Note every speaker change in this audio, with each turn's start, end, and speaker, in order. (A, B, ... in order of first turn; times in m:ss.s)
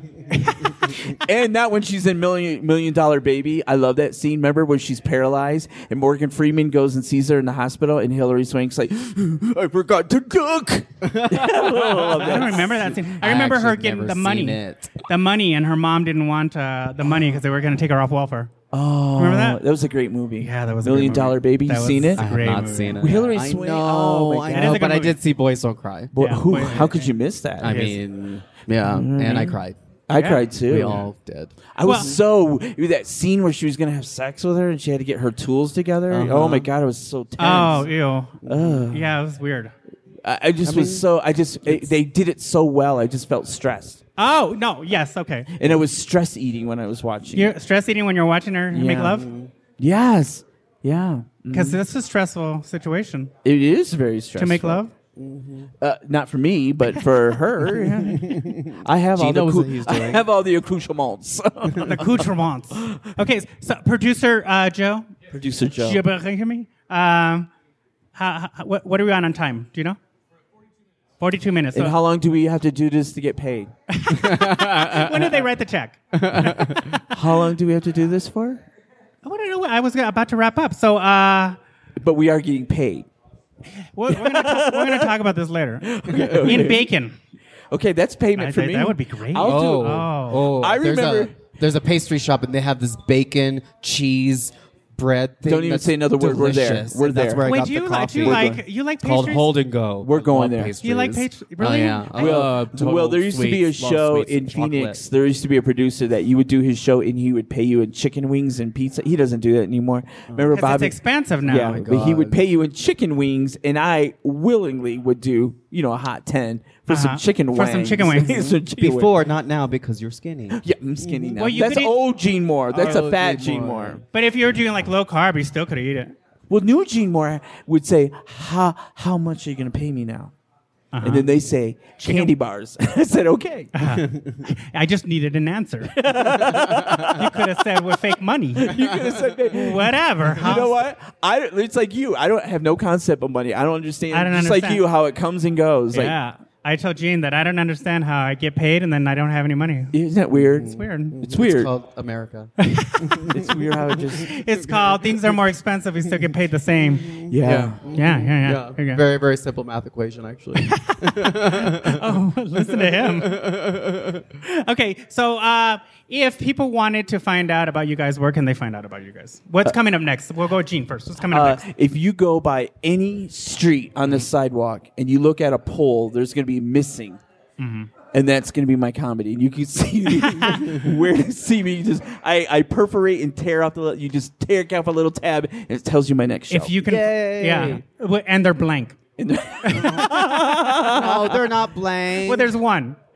0:00.3-0:01.0 A
0:00.9-0:13.0 B
0:11.0-0:15.0 C
0:12.2-0:18.5 A
0:18.7-0:22.3 B
0:19.2-0:19.6 A
0:20.4-0:23.1 A
0:22.2-0:26.8 C
0:23.0-0:25.0 B
0:24.5-0:25.2 A
0:26.1-0:28.0 B
0:26.2-0:28.0 A
0:27.6-0:29.8 C
0:28.8-0:31.0 B
0:30.1-0:30.4 A
0:30.7-0:32.2 C
0:31.8-0:37.9 B
0:31.8-0:32.1 A
0:36.1-0:36.7 C
0:37.4-0:39.7 A
0:38.4-0:38.9 C
0:38.5-0:39.2 B
0:40.2-0:44.0 B
0:40.6-0:41.1 C
0:44.2-0:45.5 A
0:45.5-0:47.6 B
0:47.3-0:49.3 A
0:48.7-0:49.3 B
0:49.1-0:49.5 C
0:49.8-0:51.8 B
0:51.5-0:53.3 A
0:53.4-0:54.8 B
0:54.4-0:54.9 A
0:55.2-0:55.7 C
0:55.8-1:03.1 B
0:57.8-1:00.3 C
1:01.8-1:05.1 A
1:05.3-1:06.0 B
1:05.8-1:07.5 A
1:08.2-1:10.0 A
1:11.2-1:12.0 A
1:11.7-1:13.7 B
1:13.9-1:17.1 A
1:14.2-1:15.1 C
1:16.1-1:17.0 C
1:17.1-1:18.7 B
1:19.2-1:21.6 A
1:22.0-1:23.1 B
1:24.0-1:27.2 A
1:24.1-1:25.1 B
1:25.8-1:26.9 B
1:27.7-1:31.4 B
1:28.4-1:30.5 A
1:29.4-1:45.0 C
1:35.5-1:37.5 B
1:37.4-1:39.5 A
1:38.2-1:38.6 B
1:40.0-1:40.8 B
1:40.8-1:42.5 A
1:42.1-1:59.1 B
1:50.3-1:50.6 C
1:50.5-1:51.8 A
1:51.5-1:52.4 C
1:56.9-1:58.5 A
1:58.3-2:01.4 C
2:00.6-2:04.0 B
2:01.4-2:01.9 A
2:02.7-2:04.0 C
2:04.1-2:06.1 A
2:06.5-2:10.3 B
2:10.9-2:11.3 A
2:11.0-2:13.7 B
2:12.0-2:12.3 A
2:13.8-2:16.0 A
2:15.9-2:17.6 B
2:16.9-2:18.8 A
2:18.6-2:26.2 B
2:19.6-2:20.8 A
2:24.1-2:24.8 A
2:25.9-2:30.0 A
2:29.9-2:31.7 B
2:30.3-2:33.6 C
2:30.6-2:31.2 A
2:32.6-2:33.3 A
2:33.3-2:34.3 B
2:34.2-2:37.2 A
2:37.2-2:44.2 C
2:37.3-2:37.8 B
2:37.9-2:39.0 A
2:40.6-2:43.5 A
2:44.3-2:51.6 A
2:51.3-2:57.2 B
2:57.6-2:57.9 A
2:58.1-3:06.8 B
3:00.2-3:00.8 A
3:06.5-3:09.0 A
3:06.8-3:07.8 C
3:09.2-3:11.4 B
3:09.6-3:11.0 A
3:09.8-3:12.5 C
3:12.2-3:13.0 A